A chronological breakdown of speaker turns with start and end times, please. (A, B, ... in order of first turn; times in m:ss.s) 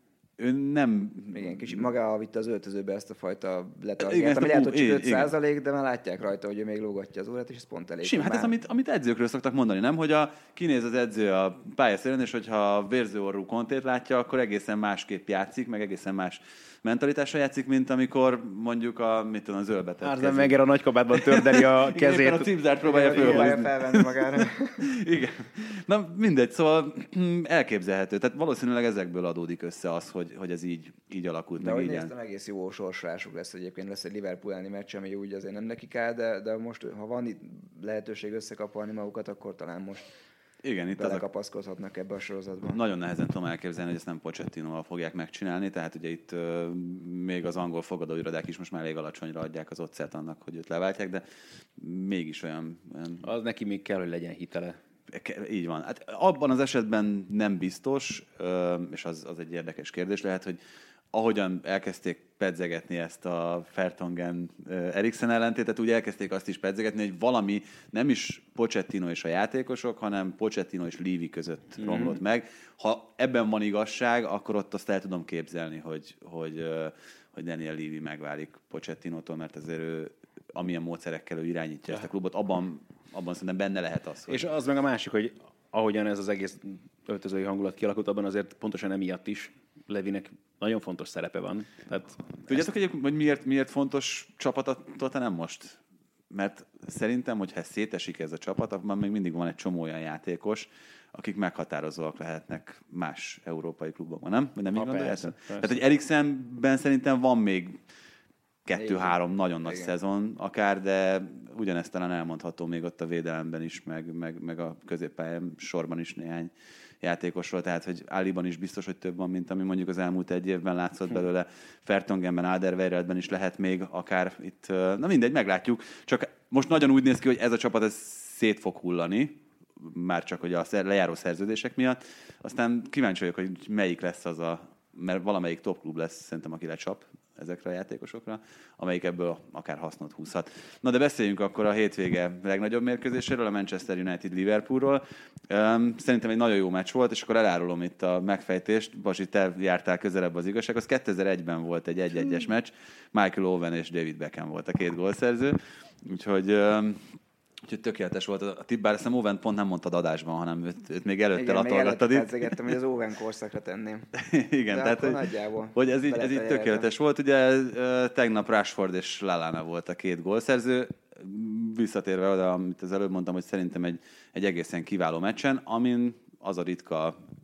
0:00.4-0:01.8 A
0:01.3-0:08.5 B
0:04.0-0:05.3 A
0:08.0-0:20.6 A
0:20.0-0:22.5 C
0:21.1-0:32.1 A
0:22.8-0:24.9 B
0:23.1-0:23.5 C
0:31.6-0:40.1 B
0:40.6-0:41.2 A
0:41.0-0:42.8 B
0:42.7-0:51.2 A
0:51.8-0:53.2 A
0:53.2-0:54.8 C
0:55.1-1:00.6 A
1:01.1-1:24.5 A
1:11.8-1:12.2 C
1:24.3-1:32.6 C
1:32.5-1:35.8 A
1:36.3-1:47.8 A
1:44.7-1:45.8 C
1:48.6-2:42.8 A
1:48.8-1:49.9 B
2:41.3-2:44.1 B
2:44.2-2:57.2 A
2:44.7-2:46.9 B